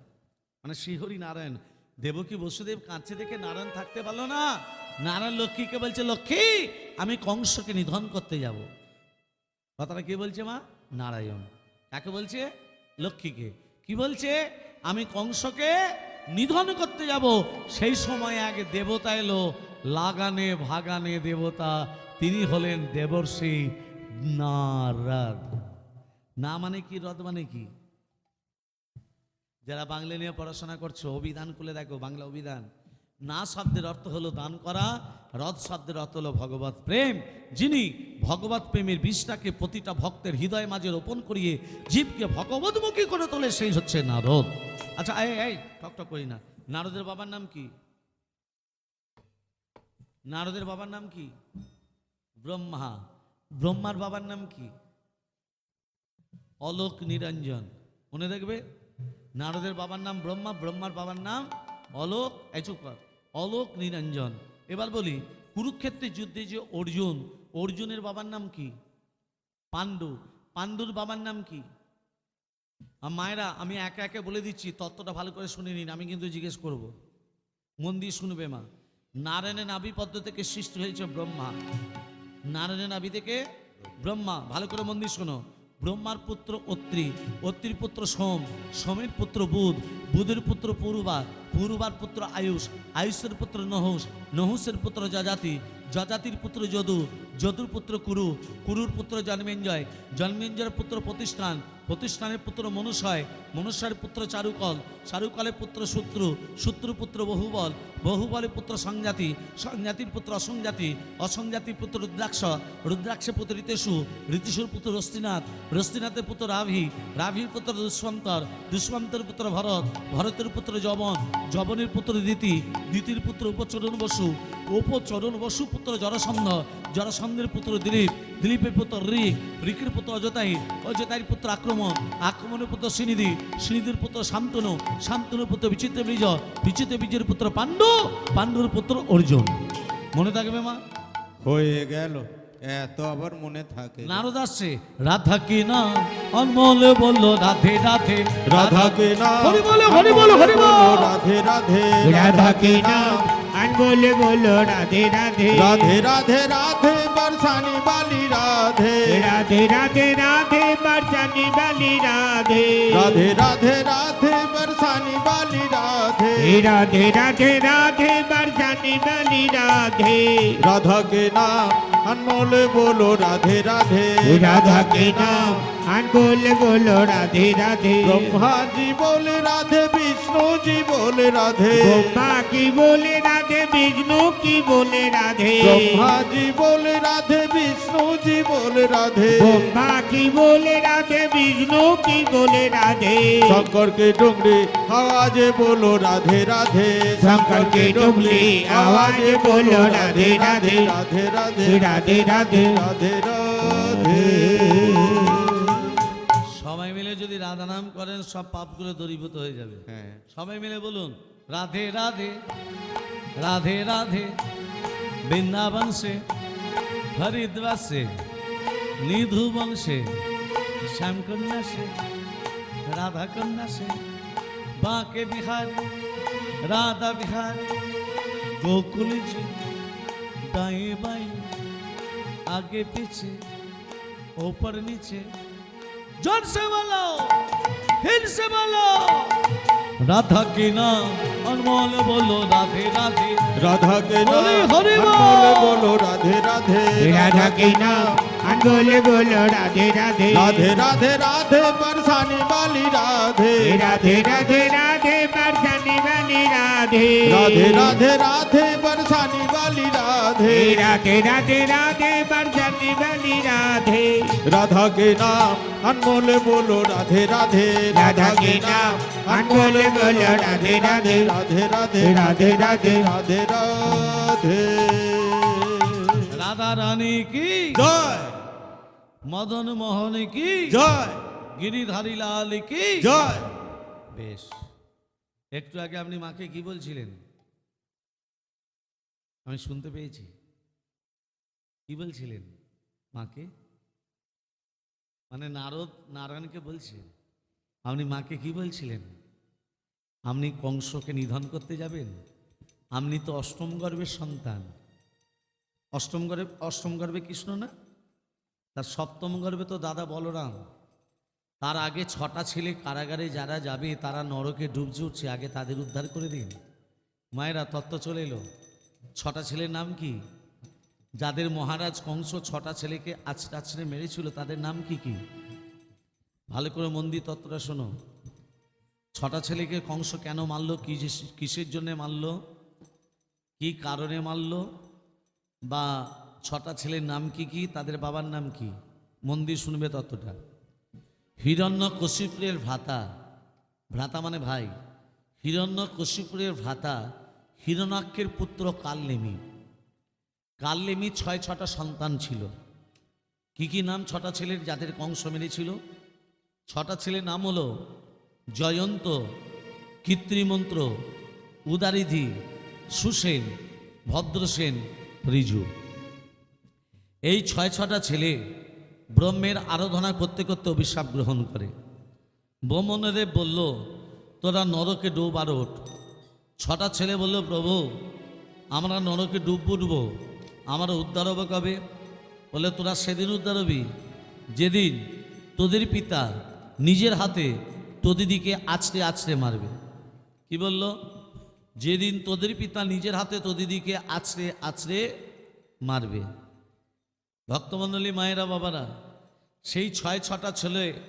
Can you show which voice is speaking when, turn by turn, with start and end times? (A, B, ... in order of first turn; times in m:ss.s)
0:00.6-0:08.7 A
0:09.8-0:12.5 A
0:13.0-0:15.8 A
0:16.3-0:25.6 A
0:26.4-0:27.7 A
0:29.7-0:32.6 A
0:33.3-0:47.7 A
0:50.3-0:51.3 A
0:52.4-0:53.0 A
0:53.6-0:54.7 A
0:56.6-0:58.6 A
0:59.4-1:08.7 A
1:09.7-1:11.6 A
1:13.0-1:16.9 A
1:17.8-1:18.6 A
1:19.2-1:21.6 A
1:22.5-1:23.4 A
1:24.0-2:19.6 A
2:20.1-2:20.8 A
2:21.4-2:24.2 B
2:24.0-2:31.1 A
2:28.5-2:33.2 B
2:32.0-2:35.9 C
2:35.5-2:39.3 B
2:39.0-2:43.3 C
2:42.9-2:46.6 B
2:46.4-2:50.6 C
2:50.6-2:55.6 B
2:54.2-2:58.4 C
2:58.0-3:02.2 B
3:01.7-3:06.1 C
3:05.6-3:09.7 B
3:09.3-3:13.7 C
3:13.4-3:26.1 B
3:17.2-3:20.9 C
3:21.6-3:22.8 C
3:23.6-3:26.0 C
3:26.6-3:32.4 A
3:29.9-3:30.2 B
3:33.4-3:34.3 A
3:35.2-3:36.2 A
3:37.2-3:38.1 A
3:39.0-3:40.1 A
3:40.9-3:41.9 A
3:42.9-3:44.0 A
3:44.8-3:45.9 A
3:46.6-3:47.7 A
3:48.6-3:49.5 A
3:50.5-3:51.4 A
3:52.5-3:53.4 A
3:54.4-3:55.2 A
3:56.2-3:59.4 A
4:00.0-4:03.4 A
4:03.6-4:08.2 B
4:04.2-4:05.8 A
4:07.0-4:10.7 C
4:10.3-4:14.4 B
4:13.6-4:18.0 C
4:17.2-4:20.9 B
4:20.4-4:24.3 C
4:24.5-4:36.3 B
4:27.9-4:31.3 C
4:32.0-4:33.1 C
4:36.3-4:37.8 A
4:37.7-4:38.4 B
4:39.3-4:40.8 A
4:40.7-4:41.2 B
4:41.6-4:43.2 A
4:43.0-4:43.5 B
4:44.1-4:44.5 A
4:45.5-4:47.2 A
4:49.4-4:50.3 A
4:51.9-4:52.5 A
4:53.1-4:53.5 A
4:55.3-4:57.1 A
4:57.9-4:59.1 A
5:00.3-5:02.2 A
5:02.9-5:04.7 A
5:05.9-5:07.7 A
5:08.8-5:10.6 A
5:11.6-5:16.6 A
5:17.4-5:18.4 A
5:19.2-5:20.2 A
5:21.2-5:25.2 A
5:26.5-5:27.9 A
5:29.1-5:32.4 A
5:33.6-5:34.6 A
5:36.4-5:38.7 A
5:39.3-5:40.4 A
5:41.4-5:43.0 A
5:43.9-5:44.7 A
5:45.4-5:47.0 A
5:47.6-5:49.4 A
5:50.6-5:52.5 A
5:53.6-5:55.8 A
5:56.7-5:57.7 A
5:58.5-5:59.2 A
6:00.0-6:00.9 A
6:01.7-6:02.3 A
6:02.9-6:03.5 A
6:04.1-6:05.7 A
6:07.3-6:08.4 A
6:09.1-6:11.7 A
6:12.7-6:13.7 A
6:14.4-6:15.8 A
6:16.6-6:17.8 A
6:18.7-6:20.1 A
6:20.7-6:21.8 A
6:22.5-6:23.8 A
6:24.5-6:25.0 A
6:25.6-6:26.3 A
6:26.8-6:27.5 A
6:28.0-6:29.7 A
6:30.5-6:30.9 A
6:31.8-6:35.0 A
6:35.8-6:36.3 A
6:37.5-6:38.9 A
6:39.7-6:40.9 A